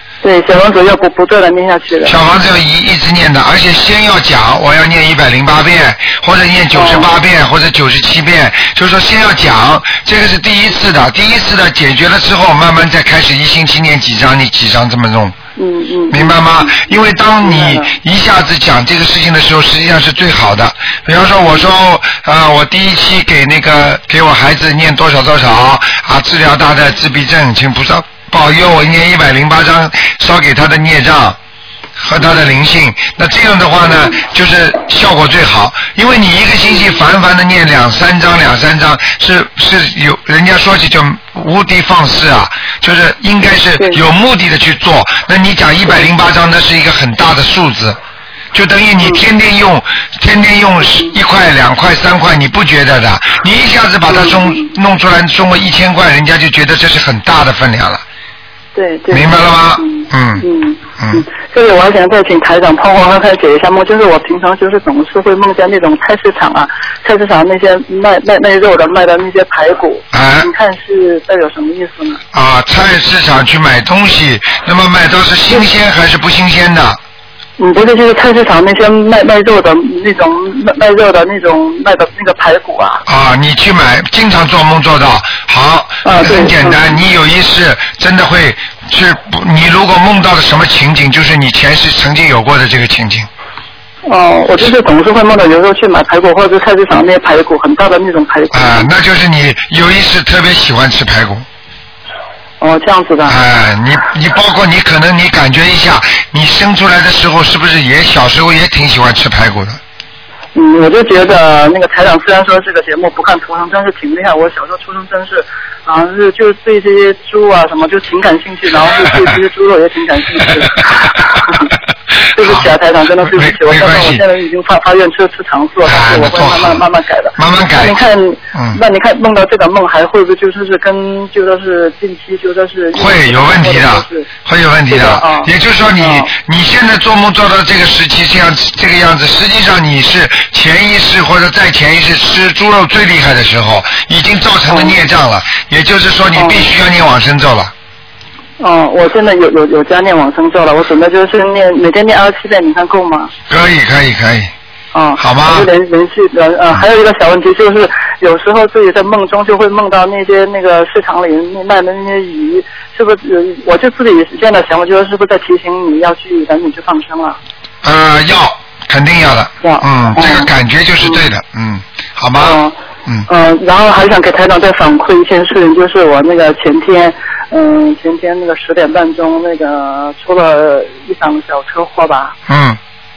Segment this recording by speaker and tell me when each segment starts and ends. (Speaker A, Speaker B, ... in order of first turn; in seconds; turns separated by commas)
Speaker A: 0.2-2.2, Speaker B: 2.1-15.4, Speaker A: 6.7-7.1, Speaker A: 15.6-16.8, Speaker B: 16.1-31.4, Speaker A: 17.4-17.9, Speaker B: 32.0-48.0, Speaker B: 48.5-58.0, Speaker A: 54.1-54.6, Speaker A: 58.8-72.2, Speaker B: 59.1-60.5, Speaker B: 61.0-61.2, Speaker B: 70.1-70.5, Speaker B: 72.3-77.0, Speaker A: 77.6-83.0, Speaker B: 83.1-93.3, Speaker A: 86.0-87.0, Speaker A: 94.1-98.9, Speaker B: 98.5-101.5, Speaker A: 102.6-103.4, Speaker B: 103.3-109.8, Speaker A: 110.5-121.7, Speaker A: 122.3-134.3, Speaker B: 122.4-122.7, Speaker B: 123.2-124.2, Speaker B: 125.8-126.8, Speaker B: 127.4-128.0, Speaker B: 128.5-128.8, Speaker B: 132.9-147.7, Speaker A: 134.9-136.3, Speaker A: 144.7-144.9, Speaker A: 146.4-146.7, Speaker A: 148.6-153.3, Speaker B: 153.5-154.5, Speaker A: 154.9-167.4, Speaker B: 155.2-155.7, Speaker B: 167.8-173.3, Speaker A: 169.6-170.5, Speaker A: 172.4-172.8, Speaker A: 173.3-182.3, Speaker B: 182.5-182.8